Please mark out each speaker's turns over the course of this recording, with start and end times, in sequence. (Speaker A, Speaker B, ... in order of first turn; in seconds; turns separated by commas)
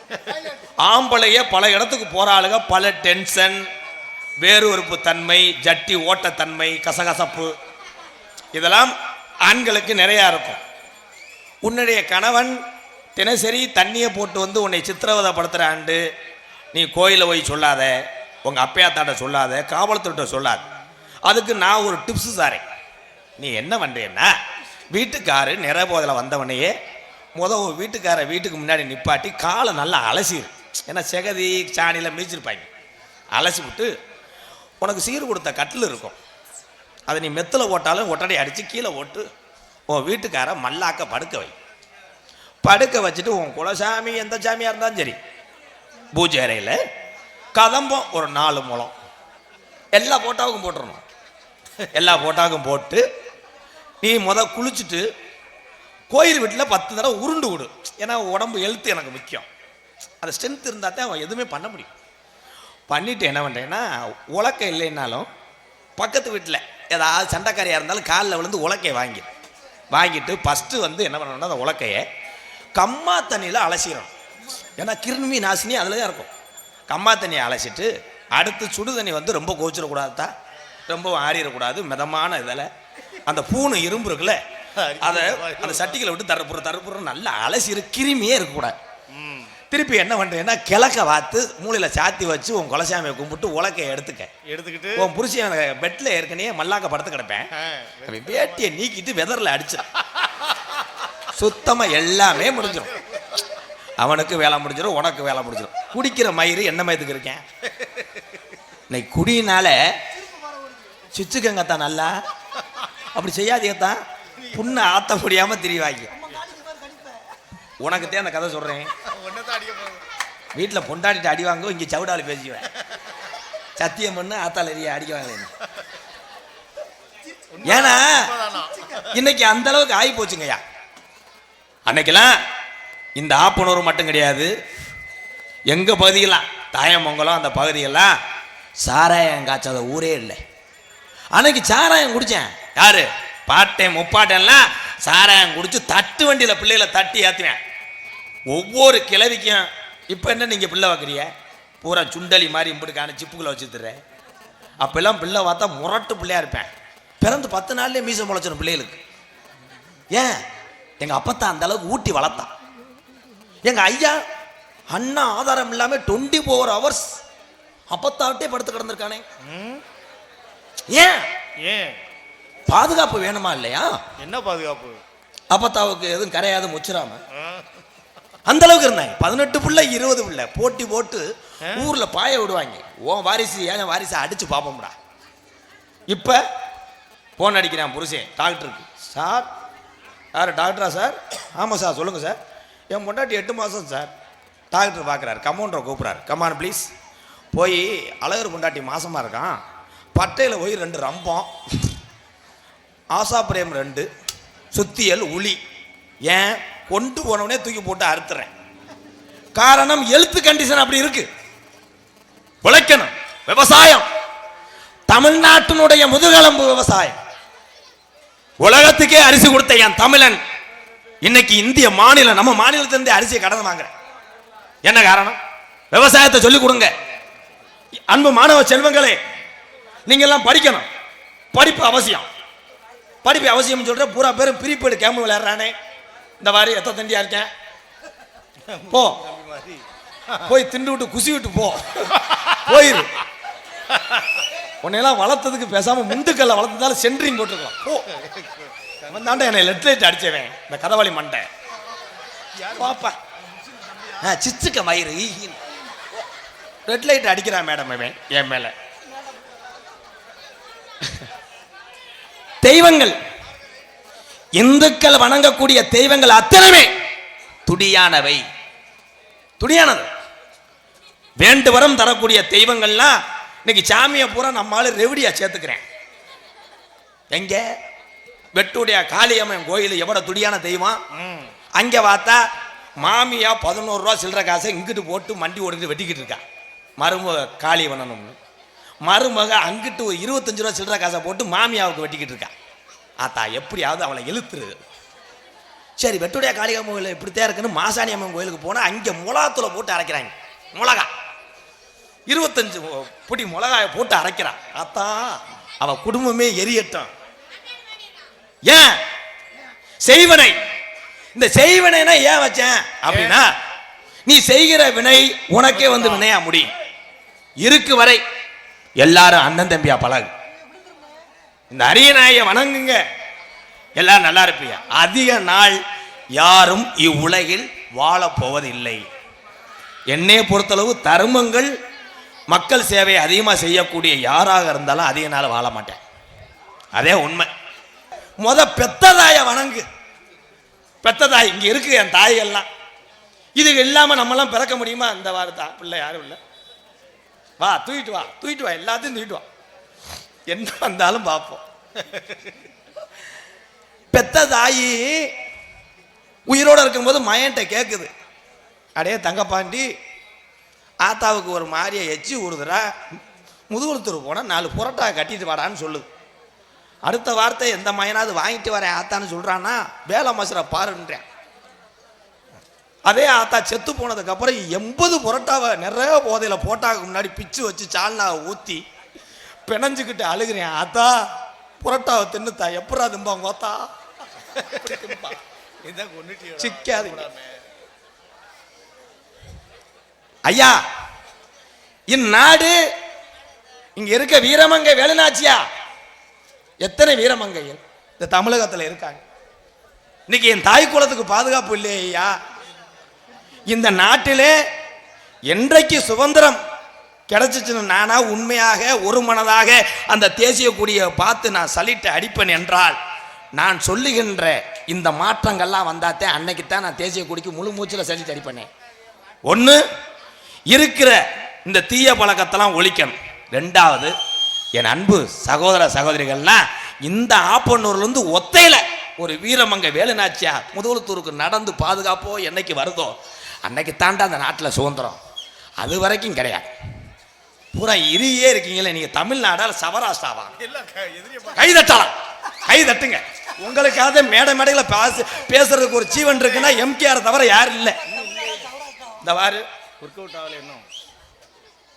Speaker A: 0.8-3.6, Speaker A: 4.4-7.5, Speaker A: 8.5-10.6, Speaker A: 11.6-12.6, Speaker A: 13.2-16.0, Speaker A: 16.7-20.6, Speaker A: 21.3-22.6, Speaker A: 23.4-24.3, Speaker A: 24.9-26.7, Speaker A: 27.4-32.7, Speaker A: 33.3-33.9, Speaker A: 34.8-36.2, Speaker A: 37.1-39.3, Speaker A: 39.9-41.5, Speaker A: 42.6-45.2, Speaker A: 46.1-46.8, Speaker A: 47.5-48.9, Speaker A: 49.9-51.0, Speaker A: 51.9-53.0, Speaker A: 54.0-55.0, Speaker A: 56.1-59.5, Speaker A: 60.2-61.9, Speaker A: 62.9-65.3, Speaker A: 66.0-69.3, Speaker A: 69.9-72.0, Speaker A: 72.8-74.1, Speaker A: 74.8-76.3, Speaker A: 76.9-80.3, Speaker A: 80.9-82.7, Speaker A: 83.3-84.4, Speaker B: 84.8-86.0, Speaker A: 85.0-88.8, Speaker B: 89.1-89.5, Speaker A: 89.7-94.3, Speaker B: 94.5-95.1, Speaker A: 95.0-97.5, Speaker B: 97.5-98.7, Speaker A: 98.0-99.9, Speaker B: 100.2-100.8, Speaker A: 101.2-103.0, Speaker A: 104.0-107.4, Speaker B: 107.8-108.2, Speaker A: 108.9-109.9, Speaker A: 111.1-112.1, Speaker A: 113.0-116.3, Speaker A: 117.8-118.9, Speaker B: 119.0-120.0, Speaker A: 120.5-122.7, Speaker A: 123.8-125.5, Speaker B: 127.5-129.1, Speaker A: 127.6-128.3, Speaker A: 129.0-130.6, Speaker A: 131.9-132.4, Speaker A: 133.2-134.5, Speaker A: 135.7-138.1, Speaker A: 138.8-140.4, Speaker A: 141.3-147.6, Speaker A: 148.5-151.3, Speaker A: 151.8-154.0, Speaker A: 154.8-156.7, Speaker A: 157.2-159.0, Speaker A: 160.1-160.4, Speaker A: 161.0-162.5, Speaker A: 163.6-164.2, Speaker A: 164.9-167.1, Speaker A: 167.9-169.2, Speaker B: 169.4-169.8, Speaker A: 170.9-171.2, Speaker B: 171.6-172.0, Speaker A: 172.7-174.0, Speaker B: 174.2-175.0, Speaker A: 175.5-177.2, Speaker B: 177.3-177.7, Speaker A: 178.4-184.9, Speaker A: 186.1-186.4, Speaker A: 187.4-189.5, Speaker A: 190.3-192.4, Speaker A: 192.9-194.1, Speaker A: 194.7-196.9, Speaker A: 197.5-199.6, Speaker A: 200.2-201.9, Speaker A: 203.1-204.1, Speaker A: 204.7-205.6, Speaker A: 206.2-208.5, Speaker A: 209.6-211.3, Speaker A: 212.6-214.1, Speaker A: 215.1-217.2, Speaker A: 218.6-220.4, Speaker A: 221.2-223.9, Speaker A: 224.8-225.4, Speaker A: 225.9-226.9, Speaker A: 228.1-229.2, Speaker A: 230.1-230.8, Speaker A: 231.5-232.3, Speaker A: 233.2-235.7, Speaker A: 236.4-237.5, Speaker B: 238.7-240.4, Speaker A: 238.9-239.2, Speaker A: 240.4-243.2, Speaker B: 243.9-244.4, Speaker A: 244.8-248.1, Speaker B: 248.1-249.3, Speaker A: 249.1-251.5, Speaker B: 252.5-252.8, Speaker A: 252.6-253.2, Speaker A: 254.2-255.6, Speaker A: 256.9-258.7, Speaker A: 262.6-263.2, Speaker A: 264.6-266.9, Speaker A: 267.6-268.4, Speaker A: 269.6-270.1, Speaker A: 271.4-275.8, Speaker A: 277.3-277.6, Speaker A: 278.5-281.0, Speaker B: 281.1-281.5, Speaker A: 281.8-282.4, Speaker A: 283.0-286.4, Speaker A: 287.0-288.3, Speaker A: 289.0-292.5, Speaker A: 293.2-294.8, Speaker A: 296.0-301.1, Speaker A: 302.3-307.1, Speaker A: 308.7-309.0, Speaker A: 310.0-310.6, Speaker A: 311.3-313.5, Speaker A: 314.2-316.7, Speaker B: 315.8-316.2, Speaker A: 317.6-318.2, Speaker A: 319.0-320.3, Speaker A: 321.7-323.0, Speaker A: 324.0-325.8, Speaker A: 326.4-329.0, Speaker A: 330.1-331.7, Speaker A: 332.5-336.0, Speaker A: 336.9-337.5, Speaker A: 338.4-339.8, Speaker A: 341.0-342.7, Speaker A: 343.6-346.4, Speaker A: 347.6-349.4, Speaker A: 350.5-351.6, Speaker A: 354.1-355.3, Speaker A: 356.5-358.1, Speaker A: 359.0-359.9, Speaker A: 361.0-363.0, Speaker A: 363.7-366.1, Speaker A: 367.1-371.2, Speaker A: 373.1-378.8, Speaker A: 379.6-381.2, Speaker A: 381.8-383.9, Speaker B: 384.5-387.6, Speaker A: 384.6-385.4, Speaker A: 386.6-387.2, Speaker A: 390.4-390.8, Speaker A: 392.1-392.8, Speaker A: 393.9-395.6, Speaker A: 396.8-399.2, Speaker A: 400.3-402.3, Speaker A: 403.7-404.6, Speaker A: 405.5-406.6, Speaker A: 407.3-413.0, Speaker A: 413.6-418.7, Speaker A: 419.5-419.8, Speaker A: 420.7-424.1, Speaker A: 424.7-435.2, Speaker A: 435.8-436.7, Speaker A: 437.7-440.6, Speaker B: 440.6-441.8, Speaker A: 441.5-448.2, Speaker B: 448.2-448.7, Speaker A: 449.2-449.6, Speaker B: 450.0-450.9